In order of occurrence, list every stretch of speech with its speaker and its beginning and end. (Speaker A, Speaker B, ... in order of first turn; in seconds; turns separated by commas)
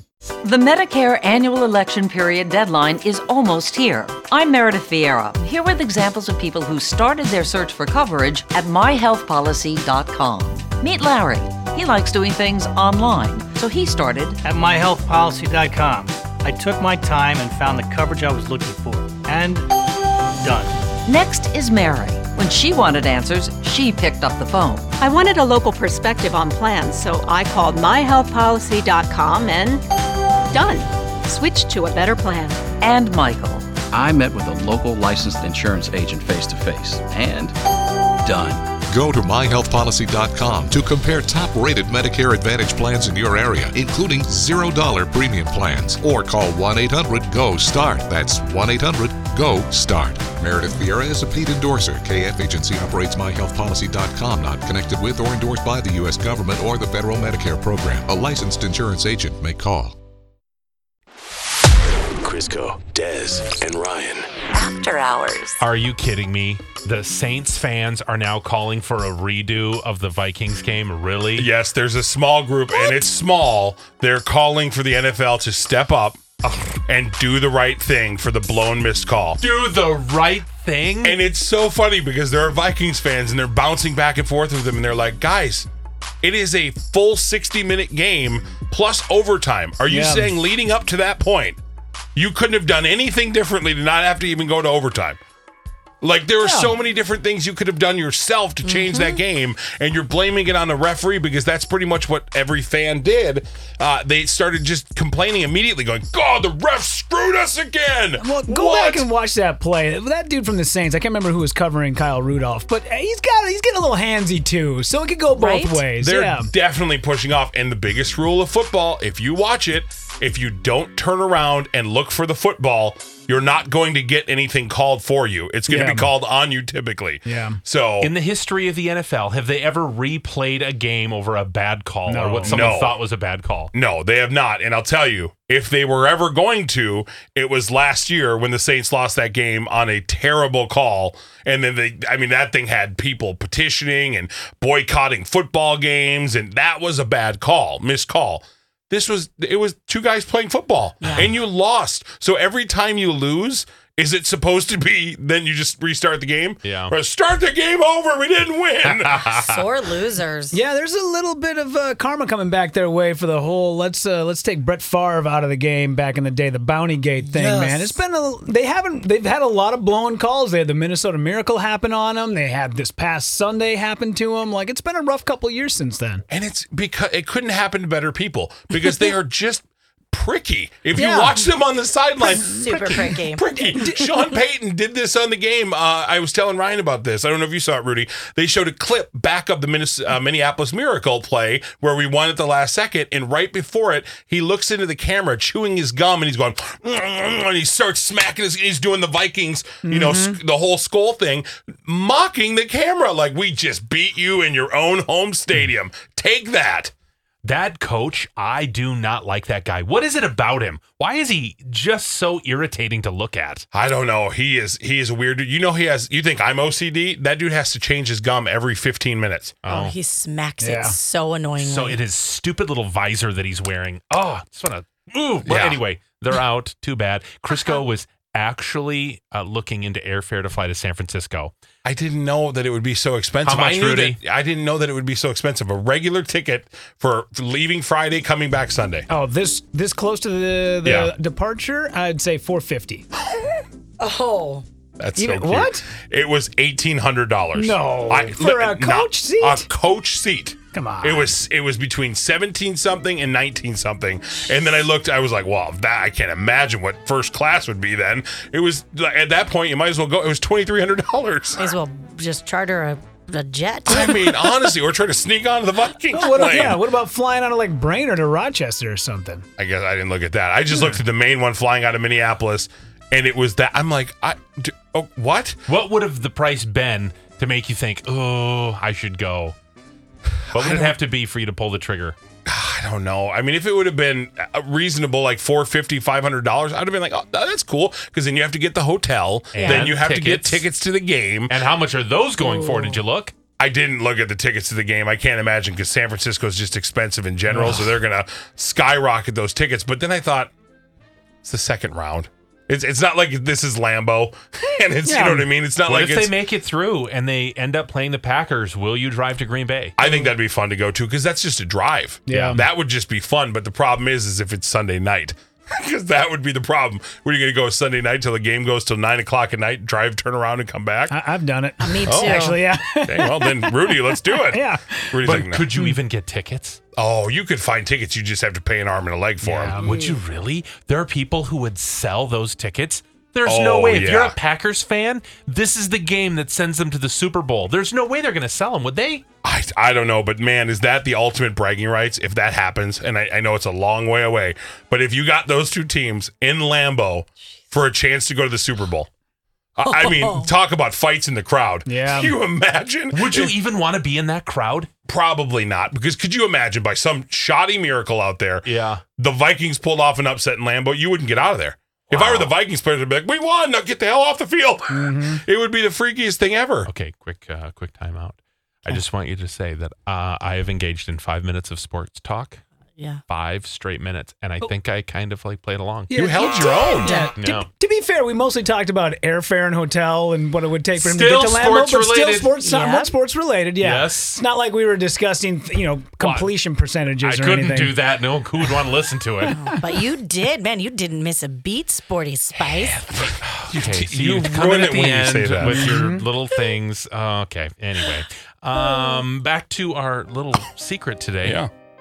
Speaker A: 0.4-14.4, Speaker B: 14.4-19.7, Speaker B: 20.4-20.7, Speaker A: 21.1-24.8, Speaker C: 25.0-29.8, Speaker C: 30.5-32.6, Speaker A: 32.8-33.7, Speaker D: 33.9-37.5, Speaker D: 38.2-38.6, Speaker E: 38.9-60.0, Speaker F: 62.2-64.2, Speaker G: 65.6-71.5, Speaker H: 71.4-76.2, Speaker G: 76.5-76.8, Speaker H: 76.9-79.4, Speaker G: 79.4-81.2, Speaker H: 81.0-85.7, Speaker H: 86.2-91.6, Speaker I: 89.9-90.4, Speaker H: 92.2-95.2, Speaker H: 96.0-109.1, Speaker I: 96.4-96.8, Speaker J: 98.7-99.2, Speaker I: 108.2-116.5, Speaker J: 115.4-115.8, Speaker H: 116.0-128.1, Speaker I: 125.7-126.2, Speaker I: 127.2-127.6, Speaker G: 128.0-133.7, Speaker I: 132.1-132.7, Speaker H: 132.5-133.0, Speaker H: 133.7-159.6, Speaker J: 151.0-151.3, Speaker G: 156.6-156.9, Speaker G: 159.1-159.5, Speaker J: 159.4-160.6, Speaker I: 160.5-176.2, Speaker H: 167.3-167.9, Speaker H: 176.3-206.9, Speaker I: 180.9-181.5, Speaker I: 182.3-184.4, Speaker J: 182.4-183.4, Speaker I: 199.8-200.4, Speaker G: 207.4-213.6, Speaker H: 213.7-219.6, Speaker G: 219.7-219.9, Speaker J: 219.7-222.0, Speaker I: 220.6-221.0, Speaker G: 221.6-231.5, Speaker H: 225.4-225.8, Speaker H: 231.8-239.1, Speaker G: 233.4-234.2, Speaker I: 239.1-243.1, Speaker G: 240.8-241.1, Speaker J: 244.0-244.7, Speaker H: 245.0-261.7, Speaker I: 245.2-245.8, Speaker I: 247.5-249.7, Speaker I: 250.7-251.3, Speaker J: 261.6-264.4, Speaker H: 263.9-266.8, Speaker I: 266.1-269.4, Speaker H: 269.6-275.6, Speaker I: 270.7-271.0, Speaker G: 275.7-279.6, Speaker H: 280.5-281.0, Speaker G: 280.5-282.2, Speaker H: 282.5-291.6, Speaker G: 289.5-290.7, Speaker J: 289.6-289.9, Speaker G: 291.5-293.3, Speaker H: 293.6-300.5, Speaker I: 297.5-298.0, Speaker H: 301.4-306.4, Speaker I: 305.1-305.5, Speaker G: 305.8-310.0, Speaker H: 310.0-321.1, Speaker I: 310.0-310.3, Speaker I: 312.3-312.7, Speaker G: 312.3-312.6, Speaker I: 321.1-325.2, Speaker J: 321.8-322.6, Speaker H: 322.1-325.7, Speaker G: 325.2-326.8, Speaker H: 326.9-330.0, Speaker I: 329.4-330.0, Speaker G: 329.8-339.2, Speaker H: 333.4-334.4, Speaker H: 339.4-349.1, Speaker H: 349.8-353.6, Speaker J: 349.9-350.5, Speaker I: 351.9-352.4, Speaker G: 353.1-354.9, Speaker H: 355.1-366.9, Speaker G: 358.6-359.0, Speaker G: 362.1-362.6, Speaker I: 364.9-365.4, Speaker G: 366.9-372.6, Speaker G: 373.3-376.8, Speaker I: 376.1-388.1, Speaker H: 376.1-377.3, Speaker J: 377.0-377.3, Speaker G: 377.4-377.7, Speaker G: 381.0-382.5, Speaker J: 382.6-383.1, Speaker G: 383.8-384.4, Speaker G: 386.2-386.5, Speaker G: 387.2-389.6, Speaker J: 389.5-393.0, Speaker I: 389.7-390.0, Speaker H: 392.6-396.0, Speaker G: 393.4-401.6, Speaker I: 395.7-396.2, Speaker H: 401.4-401.7